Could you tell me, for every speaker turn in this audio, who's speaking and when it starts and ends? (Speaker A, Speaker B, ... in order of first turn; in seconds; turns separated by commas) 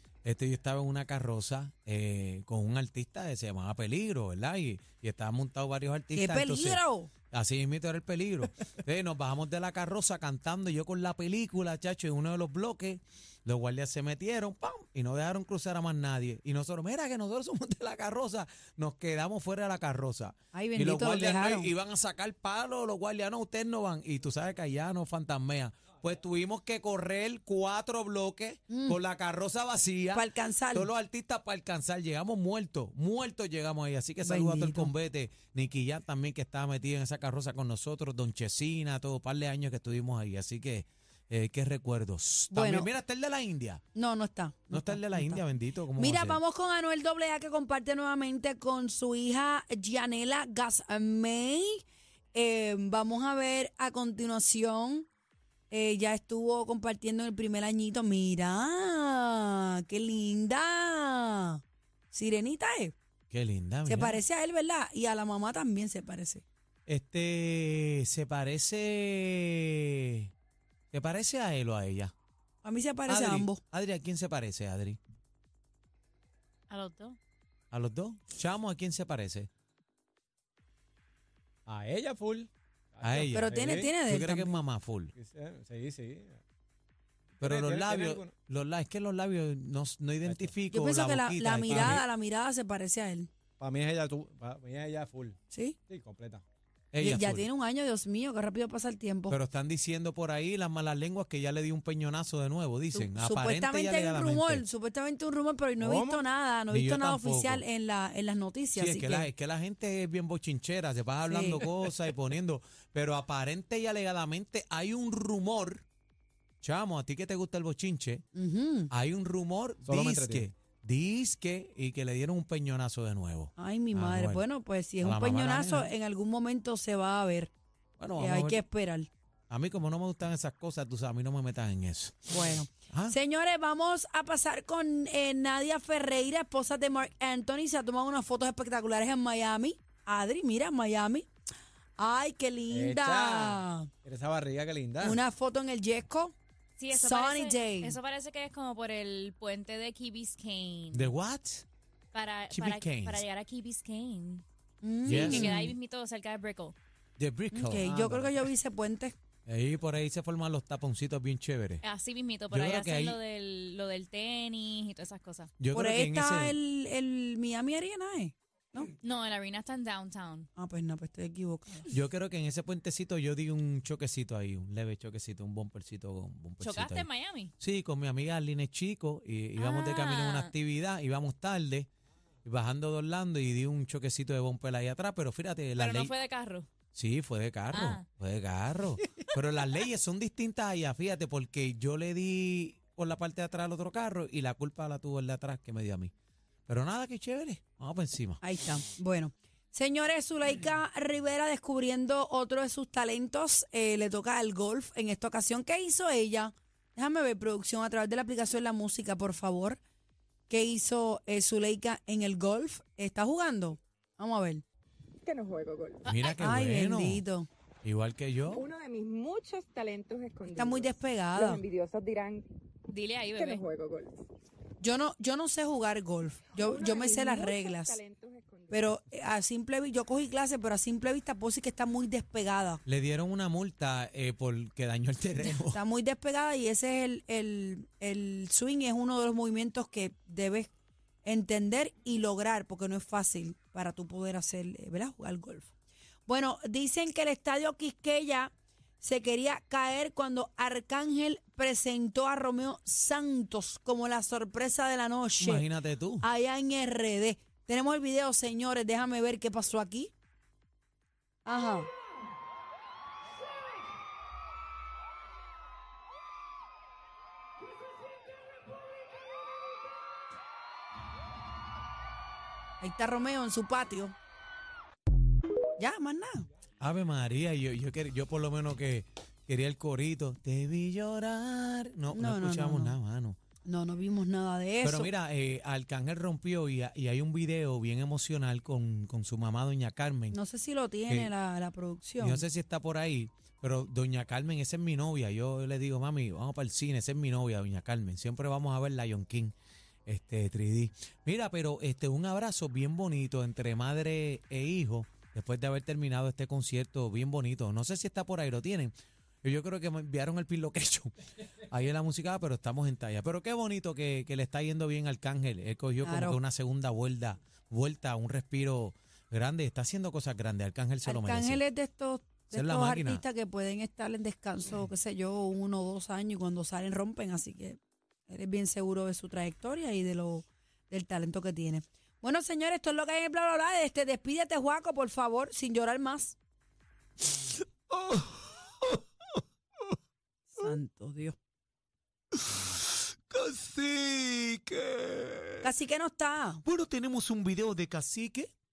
Speaker A: 0.2-43.8, Speaker B: 6.2-7.1, Speaker B: 20.5-21.7, Speaker B: 28.7-29.0, Speaker B: 30.1-30.9, Speaker B: 34.2-34.9, Speaker B: 42.5-42.9, Speaker B: 44.0-45.4, Speaker A: 44.7-46.4, Speaker B: 46.0-55.1, Speaker B: 55.7-63.0, Speaker A: 63.3-64.2, Speaker B: 63.9-66.4, Speaker A: 66.9-70.3, Speaker A: 70.9-72.1, Speaker B: 72.6-73.6, Speaker A: 73.1-75.0, Speaker C: 76.7-77.2, Speaker A: 77.7-79.5, Speaker D: 81.7-83.9, Speaker A: 83.0-83.5, Speaker B: 83.3-84.6, Speaker A: 84.1-85.1, Speaker D: 85.2-86.4, Speaker D: 87.4-88.3, Speaker A: 87.4-92.0, Speaker D: 90.2-90.5, Speaker B: 90.7-93.3, Speaker D: 91.7-92.0, Speaker D: 93.6-95.4, Speaker B: 95.5-95.8, Speaker D: 95.9-96.4, Speaker A: 96.9-97.5, Speaker B: 97.0-99.4, Speaker A: 99.3-104.7, Speaker B: 102.9-109.3, Speaker D: 105.8-106.2, Speaker A: 106.7-107.6, Speaker A: 108.7-115.8, Speaker B: 111.3-111.7, Speaker A: 116.6-118.2, Speaker B: 118.3-118.9, Speaker A: 118.9-124.5, Speaker D: 119.8-120.5, Speaker B: 123.6-127.5, Speaker A: 125.0-125.9, Speaker A: 128.0-128.6, Speaker B: 128.2-129.1, Speaker A: 129.5-132.3, Speaker B: 132.3-141.3, Speaker A: 132.9-133.2, Speaker B: 142.0-143.9, Speaker D: 142.7-145.2, Speaker B: 145.0-146.3, Speaker C: 146.8-151.1, Speaker B: 146.9-148.0, Speaker A: 150.9-151.7, Speaker C: 152.1-154.4, Speaker A: 152.5-153.2, Speaker B: 154.8-155.7, Speaker C: 155.1-156.8, Speaker A: 155.1-155.7, Speaker A: 157.2-157.9, Speaker B: 157.5-159.2, Speaker D: 157.8-158.4, Speaker A: 159.5-161.8, Speaker C: 161.8-165.5, Speaker A: 162.5-163.2, Speaker A: 165.6-166.6, Speaker B: 165.7-168.9, Speaker C: 169.0-170.5, Speaker B: 170.6-171.9, Speaker A: 171.9-177.1, Speaker C: 176.6-177.5, Speaker A: 177.6-181.9, Speaker C: 179.6-180.5, Speaker A: 182.4-186.1, Speaker C: 185.8-186.7, Speaker A: 186.9-196.1, Speaker C: 187.7-188.0, Speaker A: 196.7-198.4, Speaker B: 198.4-209.8, Speaker B: 210.5-214.6, Speaker E: 215.2-216.1, Speaker C: 216.1-216.4, Speaker A: 216.1-217.2, Speaker B: 216.4-217.5, Speaker A: 217.8-218.6, Speaker E: 218.5-222.5, Speaker B: 220.5-221.6, Speaker C: 222.9-223.6, Speaker E: 223.3-224.2, Speaker B: 224.8-228.0, Speaker E: 226.5-228.9, Speaker B: 228.7-232.8, Speaker A: 232.9-235.8, Speaker B: 235.4-240.7, Speaker B: 241.2-245.7, Speaker B: 246.3-255.7, Speaker A: 255.4-256.2, Speaker B: 256.2-260.1, Speaker B: 261.4-261.9, Speaker B: 272.8-274.1, Speaker B: 275.8-276.5, Speaker A: 276.8-283.4, Speaker B: 282.1-283.0, Speaker B: 283.7-285.1, Speaker A: 284.8-290.4, Speaker B: 290.3-292.4, Speaker A: 292.2-299.5, Speaker A: 300.1-311.1, Speaker A: 311.7-321.6, Speaker B: 316.0-316.4, Speaker B: 321.0-336.4, Speaker A: 322.5-323.2, Speaker A: 337.3-339.4, Speaker B: 340.5-341.4, Speaker A: 342.3-345.8, Speaker B: 345.6-346.6, Speaker A: 346.6-348.5